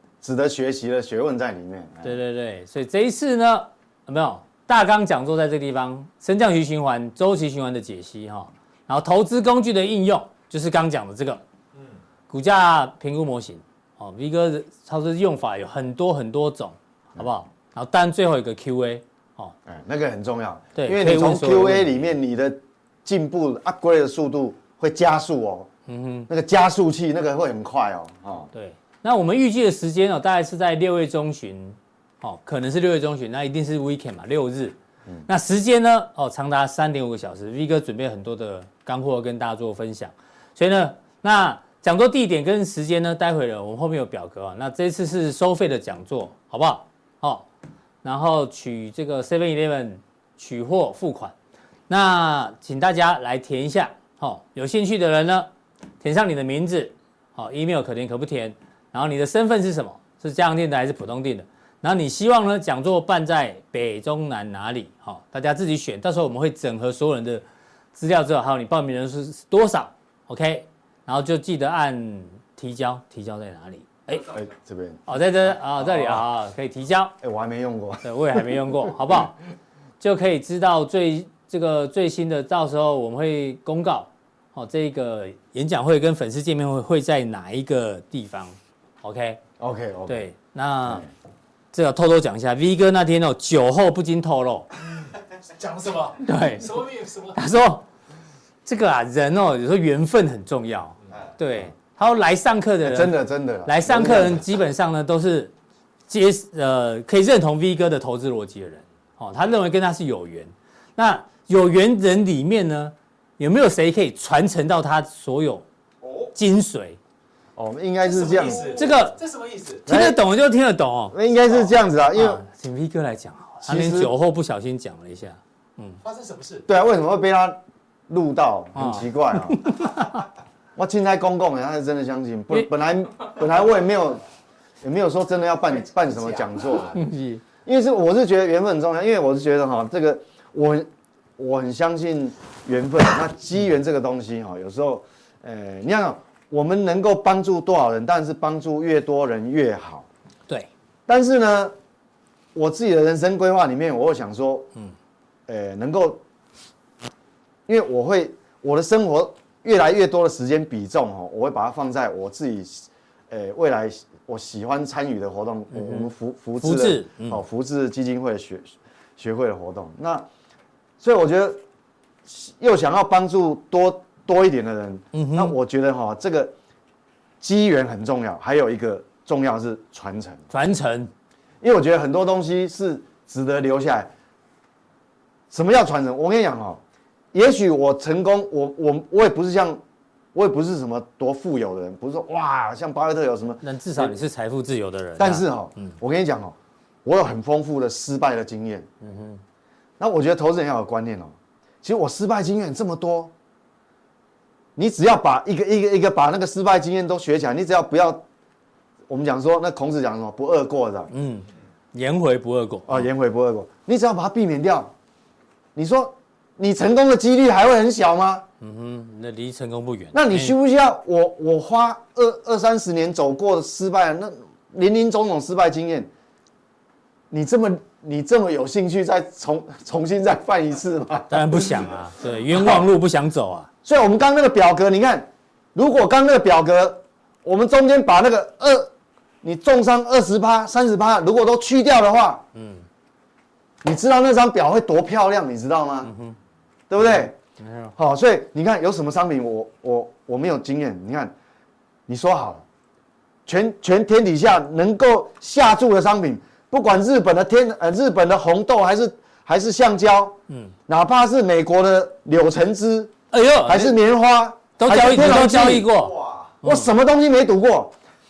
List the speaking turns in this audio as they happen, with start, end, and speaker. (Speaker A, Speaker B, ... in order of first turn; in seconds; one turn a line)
Speaker A: 0.2-2.1
Speaker B: 2.0-11.4
Speaker B: 12.3-19.5
Speaker A: 19.7-25.7
Speaker B: 20.8-22.0
Speaker B: 25.9-26.3
Speaker A: 26.3-28.5
Speaker B: 28.5-34.8
Speaker B: 35.3-47.5
Speaker B: 48.0-51.4
Speaker B: 51.9-55.5
Speaker B: 56.0-74.3
Speaker A: 74.3-75.1
Speaker B: 75.1-77.1
Speaker A: 75.8-76.2
Speaker A: 77.2-78.1
Speaker B: 78.0-79.4
Speaker B: 80.0-89.4
Speaker A: 89.6-90.3
Speaker B: 90.1-91.0
Speaker B: 91.7-94.7
Speaker C: 95.5-97.4
Speaker B: 96.2-97.8
Speaker B: 98.6-105.5
Speaker A: 102.8-104.5
Speaker B: 106.1-115.6
Speaker B: 116.3-117.0
Speaker A: 117.6-118.8
Speaker C: 118.0-119.9
Speaker B: 118.7-119.2
Speaker B: 119.9-121.1
Speaker A: 119.9-120.2
Speaker A: 121.1-122.4
Speaker B: 122.1-126.0
Speaker A: 123.6-124.1
Speaker C: 126.0-126.7
Speaker A: 126.7-129.8
Speaker B: 128.8-130.2
Speaker A: 130.8-134.2
Speaker A: 134.8-137.0
Speaker B: 136.9-137.4
Speaker A: 137.6-140.9
Speaker A: 141.4-150.1
Speaker A: 151.1-151.7
Speaker A: 152.6-154.7
Speaker A: 155.5-156.2
Speaker A: 157.7-170.3
Speaker B: 165.7-167.4
Speaker A: 171.0-171.6
Speaker A: 172.3-176.5
Speaker B: 175.1-175.6
Speaker A: 177.4-180.5
Speaker B: 180.5-181.1
Speaker A: 181.6-184.1
Speaker A: 185.5-186.8
Speaker A: 187.3-189.8
Speaker A: 190.3-194.1
Speaker B: 193.6-195.9
Speaker A: 195.2-198.9
Speaker B: 199.0-199.4
Speaker A: 200.0-203.3
Speaker A: 204.8-208.2
Speaker A: 209.1-211.1
Speaker B: 211.1-213.1
Speaker A: 212.9-214.9
Speaker A: 215.8-218.4
Speaker B: 218.6-220.6
Speaker A: 220.1-226.1
Speaker A: 227.3-231.8
Speaker B: 231.3-233.7
Speaker A: 233.8-238.9
Speaker A: 239.4-242.4
Speaker B: 242.5-242.9
Speaker A: 243.8-246.1
Speaker B: 246.1-246.4
Speaker A: 246.9-247.3
Speaker B: 247.0-247.9
Speaker A: 248.0-251.3
Speaker A: 252.1-252.6
Speaker A: 253.5-260.4
Speaker B: 260.5-260.7
Speaker A: 260.9-266.0
Speaker B: 263.3-264.0
Speaker B: 264.8-266.9
Speaker A: 266.6-267.9